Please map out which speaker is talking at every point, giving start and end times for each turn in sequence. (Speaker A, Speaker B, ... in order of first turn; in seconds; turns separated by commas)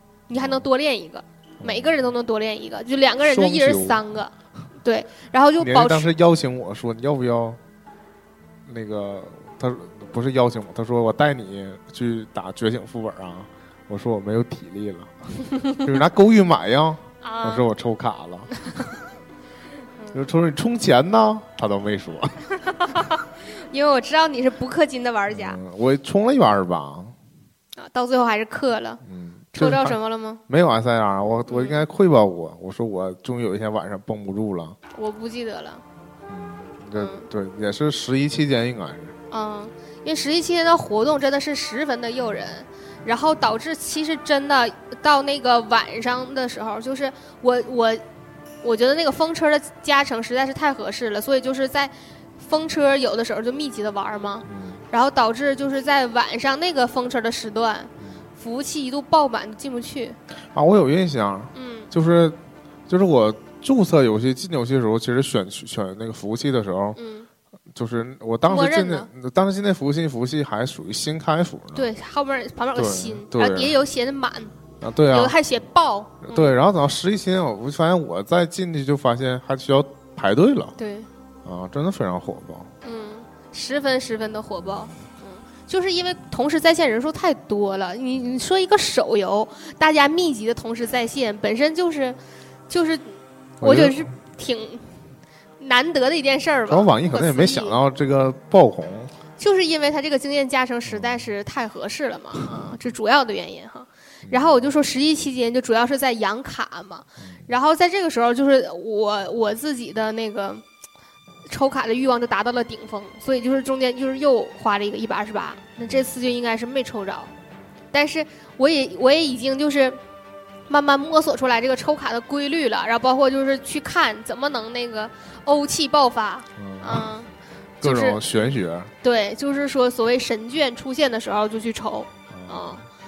Speaker A: 0.3-6.1, Speaker B: 0.3-0.7, Speaker B: 1.6-2.1, Speaker B: 3.2-4.0, Speaker B: 5.6-7.6, Speaker B: 8.7-18.5, Speaker A: 15.5-15.8, Speaker A: 17.2-17.6, Speaker A: 18.6-18.9, Speaker A: 20.0-20.3, Speaker B: 20.1-23.0, Speaker A: 22.6-25.6, Speaker B: 25.3-27.1, Speaker A: 27.8-29.0, Speaker B: 29.0-34.8, Speaker A: 29.5-30.4, Speaker A: 31.5-31.9, Speaker A: 34.9-35.8, Speaker B: 36.3-39.1, Speaker A: 37.0-37.3, Speaker A: 39.3-48.0, Speaker A: 48.6-60.2, Speaker B: 54.4-54.8, Speaker B: 58.0-58.2, Speaker B: 60.5-67.0, Speaker A: 61.5-61.9, Speaker A: 67.0-67.3, Speaker B: 67.7-71.9, Speaker A: 68.5-69.1, Speaker A: 71.7-74.5, Speaker B: 72.7-73.8, Speaker B: 74.8-75.4, Speaker A: 75.1-76.5, Speaker B: 76.2-80.7, Speaker A: 80.8-81.1, Speaker B: 81.4-82.7, Speaker A: 82.8-92.2, Speaker A: 92.7-95.0, Speaker B: 93.6-94.1, Speaker A: 95.6-97.8, Speaker B: 96.7-99.1, Speaker A: 99.4-110.6, Speaker B: 100.9-101.3, Speaker B: 104.3-104.7, Speaker B: 107.2-107.4, Speaker A: 111.5-117.3, Speaker B: 115.8-116.1, Speaker A: 117.9-120.0, Speaker A: 120.7-127.3, Speaker B: 126.5-127.1, Speaker B: 127.8-128.9, Speaker A: 127.8-128.2, Speaker A: 129.0-132.8, Speaker B: 132.3-132.9